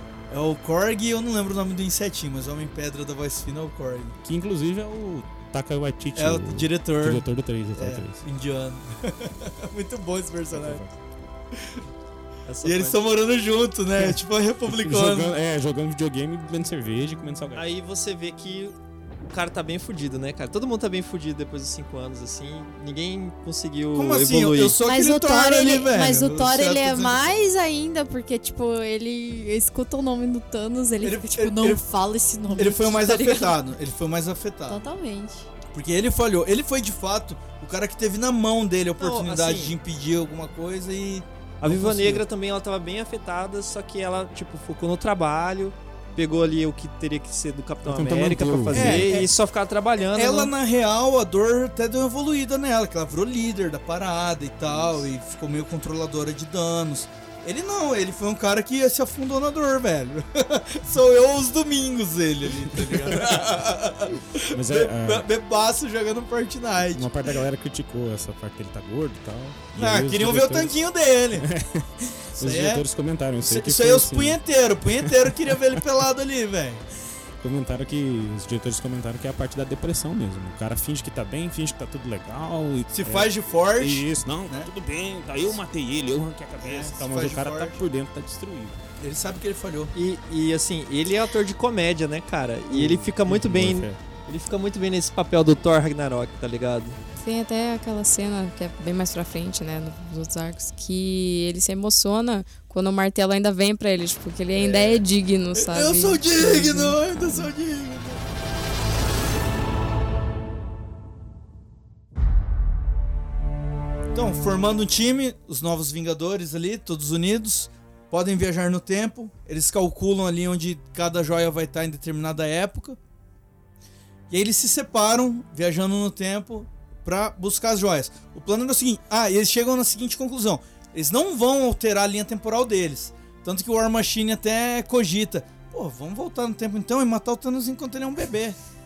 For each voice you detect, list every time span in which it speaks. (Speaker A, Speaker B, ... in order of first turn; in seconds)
Speaker A: 0.3-4.2, 6.2-10.8, 11.5-11.8, 12.6-15.4, 23.9-27.2, 31.0-31.8, 32.5-34.9, 35.7-42.2, 48.7-49.3, 50.0-67.4, 69.8-71.5, 72.4-72.8, 73.4-76.8, 82.9-84.7, 86.6-87.8, 89.0-89.9, 104.5-105.0, 105.5-108.2, 114.1-123.0, 124.3-138.6
Speaker B: 4.2-8.2, 10.5-11.3, 14.0-17.7, 47.8-49.2, 64.5-65.3, 66.9-70.8, 71.4-74.4, 75.0-75.5, 77.4-88.8, 92.7-94.0
Speaker C: 12.5-13.0, 17.6-18.8, 19.3-24.8, 39.0-39.8, 41.6-50.5, 90.0-97.0
Speaker D: 24.8-33.6, 34.7-35.5
Speaker E: 97.2-107.5